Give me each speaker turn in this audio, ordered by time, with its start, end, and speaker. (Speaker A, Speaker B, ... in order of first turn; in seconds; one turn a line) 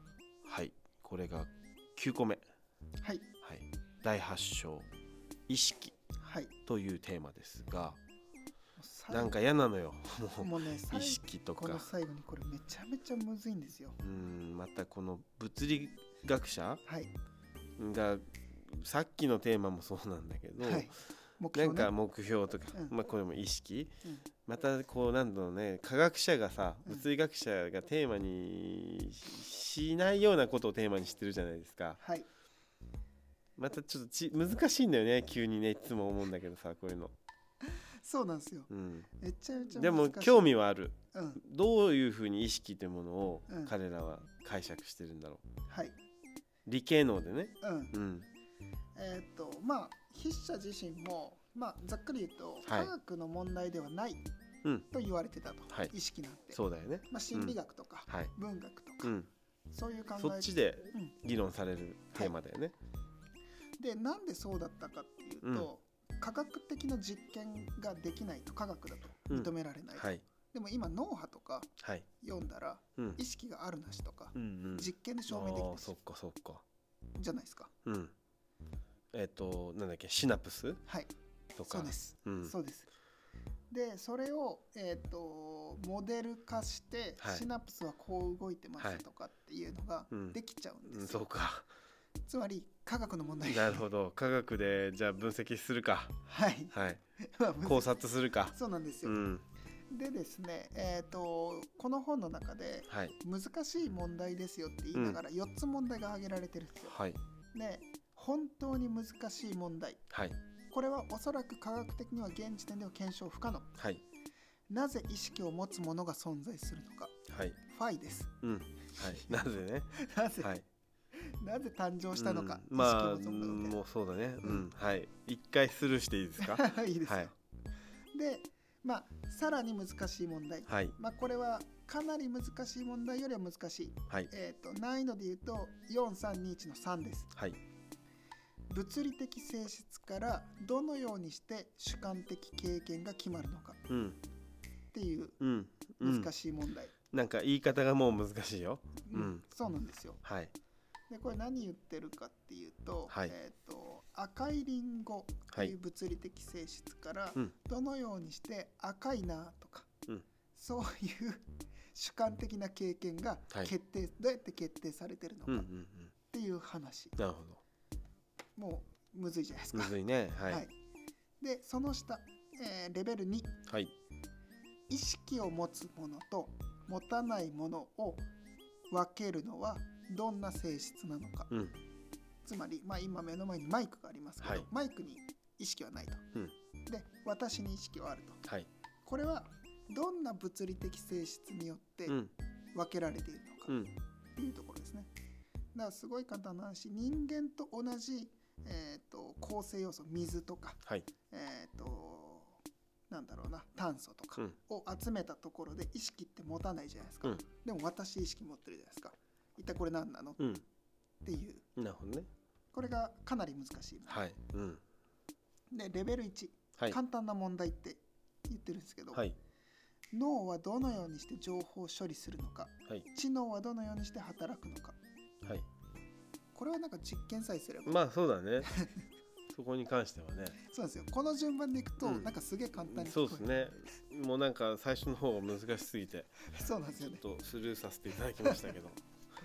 Speaker A: 0.4-2.4
Speaker A: 3.4-4.9
Speaker A: 5.5-5.9
Speaker B: 6.2-6.5
Speaker A: 6.7-8.0
Speaker B: 8.8-9.3
Speaker A: 9.1-11.9
Speaker B: 10.4-14.0
Speaker A: 14.0-16.8
Speaker B: 16.8-17.1
Speaker A: 17.8-20.9
Speaker B: 20.6-21.9
Speaker A: 21.5-32.0
Speaker B: 32.0-32.3
Speaker A: 33.6-37.1
Speaker B: 37.6-40.5
Speaker A: 38.7-39.1
Speaker A: 39.7-45.4
Speaker B: 41.1-41.4
Speaker B: 43.5-43.7
Speaker B: 45.7-46.0
Speaker A: 46.7-48.3
Speaker B: 47.6-48.0
Speaker B: 48.9-54.2
Speaker A: 52.6-52.9
Speaker B: 54.9-59.2
Speaker A: 56.5-57.6
Speaker A: 58.1-58.3
Speaker A: 59.0-59.3
Speaker B: 59.7-61.2
Speaker A: 60.2-62.8
Speaker B: 63.8-75.9
Speaker A: 65.4-65.7
Speaker A: 69.3-70.2
Speaker A: 71.8-72.1
Speaker A: 74.3-76.6
Speaker B: 77.2-77.7
Speaker A: 77.8-78.1
Speaker A: 79.1-80.8
Speaker B: 80.8-81.1
Speaker A: 81.5-82.5
Speaker B: 81.6-82.9
Speaker B: 83.7-91.3
Speaker A: 87.2-87.5
Speaker A: 90.1-91.7
Speaker B: 92.3-93.9
Speaker A: 93.4-96.2
Speaker B: 96.2-98.0
Speaker A: 96.7-97.0
Speaker A: 97.6-99.4
Speaker B: 98.5-99.3
Speaker B: 99.9-106.9
Speaker A: 102.9-103.2
Speaker A: 104.9-105.2
Speaker A: 106.8-107.2
Speaker B: 107.5-110.0
Speaker A: 110.1-110.4
Speaker B: 110.7-113.8
Speaker A: 113.8-114.0
Speaker B: 114.7-118.3
Speaker A: 117.3-117.6
Speaker A: 118.4-120.7
Speaker B: 118.9-120.5
Speaker B: 121.1-123.8
Speaker A: 122.1-127.3
Speaker B: 126.4-127.3
Speaker B: 128.1-137.3
Speaker A: 130.7-130.9
Speaker A: 137.3-137.6
Speaker B: 138.7-143.9
Speaker A: 143.9-144.2
Speaker B: 144.9-145.4
Speaker A: 145.4-146.3
Speaker B: 146.0-146.9
Speaker A: 147.1-149.4
Speaker B: 149.0-150.2
Speaker A: 150.2-150.5
Speaker B: 151.1-159.9
Speaker A: 153.1-153.3
Speaker B: 160.5-165.7
Speaker A: 165.5-166.1
Speaker B: 166.2-167.2
Speaker A: 167.2-167.6
Speaker B: 168.6-170.7
Speaker A: 169.7-170.7
Speaker B: 171.4-173.6
Speaker A: 173.7-173.9
Speaker B: 174.9-178.2
Speaker B: 178.9-181.5
Speaker A: 181.5-181.8
Speaker B: 182.4-186.2
Speaker A: 184.4-184.7
Speaker B: 186.8-188.4
Speaker A: 188.4-188.7
Speaker B: 189.0-192.2
Speaker A: 192.1-192.3
Speaker B: 192.7-193.8
Speaker A: 193.7-193.9
Speaker B: 194.3-195.1
Speaker B: 195.7-210.4
Speaker A: 210.4-210.6
Speaker B: 211.2-211.7
Speaker A: 211.8-212.3
Speaker B: 212.7-214.2
Speaker A: 214.1-214.8
Speaker B: 215.7-219.3
Speaker B: 220.1-225.0
Speaker B: 226.5-228.0
Speaker A: 227.8-228.7
Speaker B: 228.6-229.0
Speaker A: 229.5-230.6
Speaker B: 230.6-233.5
Speaker A: 232.0-239.0
Speaker B: 236.4-237.2
Speaker B: 238.4-238.7